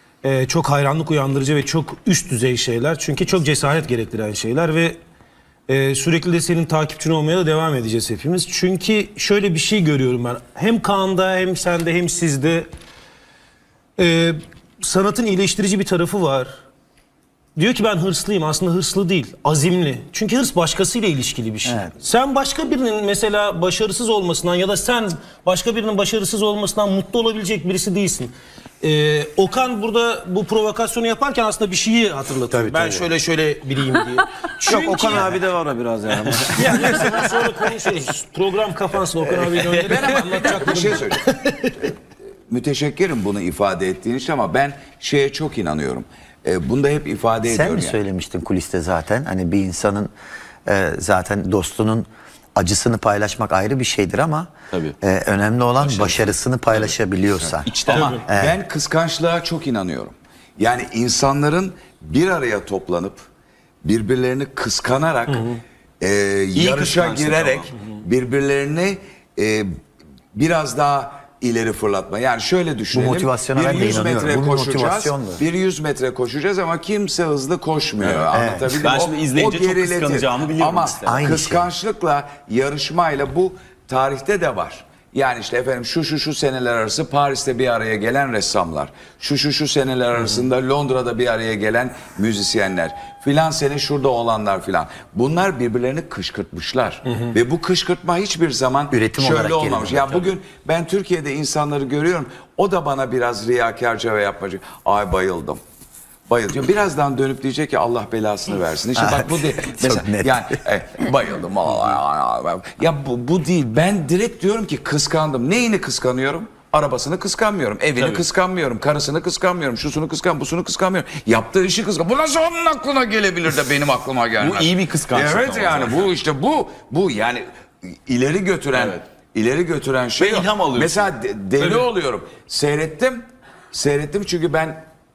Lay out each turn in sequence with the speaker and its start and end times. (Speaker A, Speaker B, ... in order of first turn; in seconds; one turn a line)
Speaker A: 0.2-5.0
Speaker A: 5.7-12.7
Speaker A: 14.0-16.6
Speaker A: 17.6-35.4
Speaker B: 21.6-21.9
Speaker B: 32.5-33.1
Speaker C: 34.6-37.3
Speaker A: 36.3-41.7
Speaker D: 39.8-41.3
Speaker D: 42.5-48.0
Speaker B: 47.5-50.1
Speaker B: 50.6-54.5
Speaker B: 55.0-57.7
Speaker E: 55.8-56.1
Speaker E: 57.6-58.2
Speaker D: 57.9-63.3
Speaker B: 58.3-58.5
Speaker D: 63.8-69.7
Speaker E: 66.5-67.7
Speaker D: 70.3-105.6
Speaker B: 72.9-75.4
Speaker E: 78.0-81.3
Speaker B: 78.3-78.7
Speaker B: 81.0-81.7
Speaker B: 98.9-100.3
Speaker D: 106.3-134.8
Speaker B: 108.9-110.5
Speaker E: 118.0-118.2
Speaker E: 124.4-126.0
Speaker E: 130.2-131.8